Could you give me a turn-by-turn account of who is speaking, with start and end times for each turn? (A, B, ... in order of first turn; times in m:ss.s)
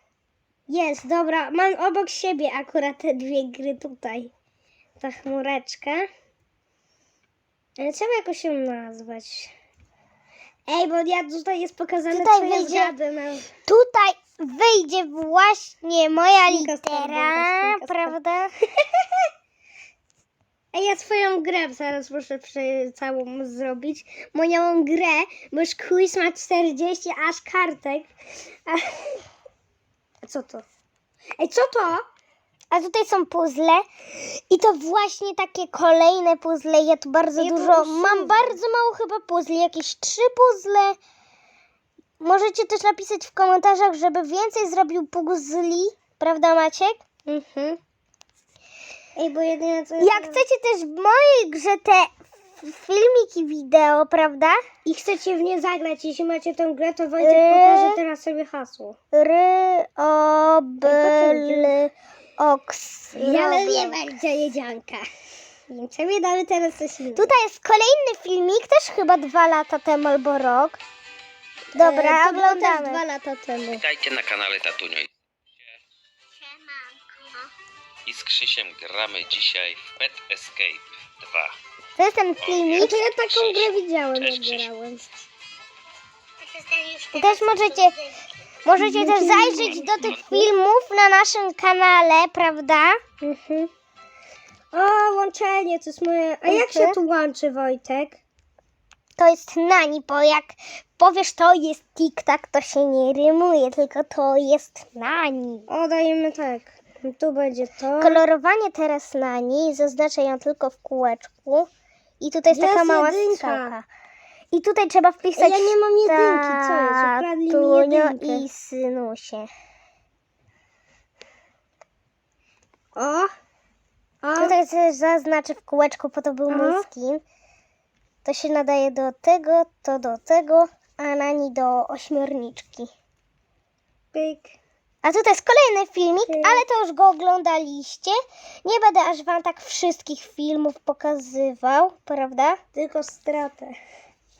0:00.7-0:04.3 A
0:05.0-0:06.1 A
0:07.8-0:09.5 A
0:10.7-0:13.5 A
0:12.1-0:12.9 B
0:13.6-0:18.5 B
0:16.4-0:18.2 A
0:20.7-0:28.1 A
0:28.7-0:29.2 A
0:30.2-0:30.6 A
0:31.4-0:32.0 A
0:32.7-0:41.0 B
0:37.4-0:38.6 A
0:42.2-0:47.0 B
0:47.3-0:47.8 A
0:49.2-0:50.4 A
0:50.0-0:54.6 B
0:54.8-0:59.0 A
0:57.2-0:58.0 B
0:59.1-1:04.0 B
1:00.8-1:01.8 A
1:03.1-1:05.1 A
1:05.7-1:07.3 A
1:07.2-1:10.8 B
1:11.8-1:13.0 B
1:11.8-1:13.8 A
1:13.7-1:15.1 C
1:16.6-1:17.1 B
1:18.1-1:21.6 C
1:22.0-1:23.0 B
1:22.4-1:24.7 C
1:22.8-1:25.2 A
1:27.1-1:28.0 B
1:28.6-1:33.0 B
1:28.8-1:29.9 A
1:30.0-1:30.4 C
1:33.2-1:33.7 A
1:34.7-1:38.2 A
1:36.5-1:37.0 B
1:39.2-1:45.7 B
1:45.7-1:48.2 A
1:48.0-1:51.7 B
1:52.2-1:53.9 B
1:52.5-1:53.7 A
1:54.5-1:59.5 B
1:55.4-1:58.5 A
2:03.0-2:03.3 A
2:04.2-2:04.6 A
2:04.4-2:07.2 B
2:06.5-2:06.9 A
2:08.2-2:12.9 B
2:14.1-2:14.6 A
2:15.0-2:22.6 B
2:16.3-2:16.6 A
2:22.8-2:23.8 A